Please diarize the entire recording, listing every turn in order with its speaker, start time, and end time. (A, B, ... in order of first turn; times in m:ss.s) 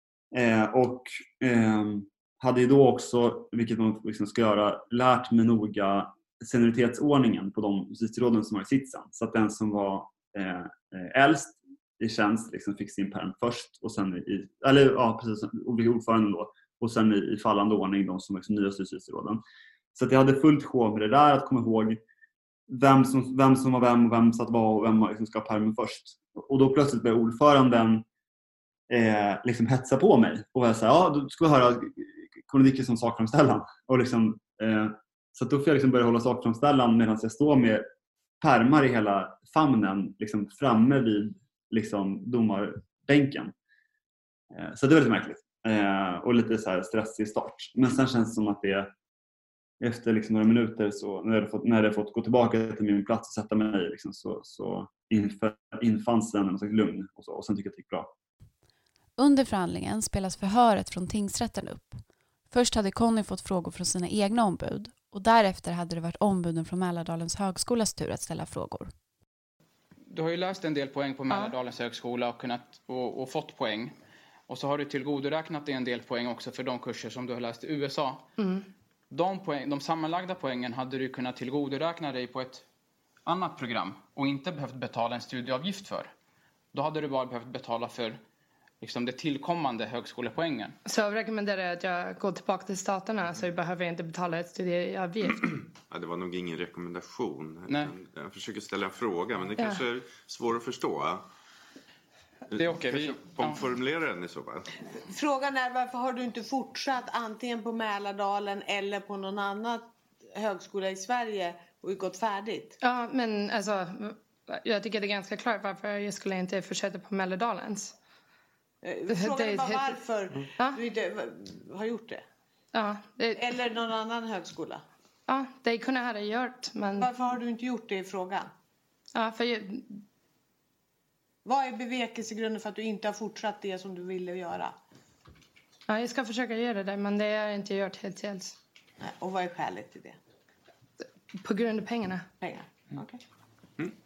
0:00.3-0:19.4 A
0:19.9-0:22.0 A
0:22.7-0:28.0 A
0:28.9-0:37.8 A
0:38.4-0:43.5 A
0:44.5-0:48.9 A
0:49.8-0:58.1 A
0:59.2-1:08.9 B
1:10.1-1:13.9 C
1:14.5-1:18.2 C
1:18.4-1:18.6 D
1:19.1-1:22.6 C
1:23.2-1:26.1 C
1:26.7-1:28.2 C
1:28.8-1:30.8 C
1:30.8-1:35.5 D
1:35.8-1:41.2 E
1:37.7-1:37.9 C
1:42.5-1:44.7 E
1:42.5-1:43.6 C
1:45.1-1:52.8 F
1:52.8-1:57.9 D
1:58.8-2:02.2 F
1:59.1-2:00.0 D
2:02.7-2:03.4 D
2:03.3-2:04.8 F
2:05.3-2:07.1 D
2:07.0-2:08.5 F
2:09.1-2:10.0 D
2:11.4-2:14.7 F
2:15.9-2:18.6 D
2:19.0-2:20.2 F
2:21.4-2:22.2 D
2:22.4-2:23.2 F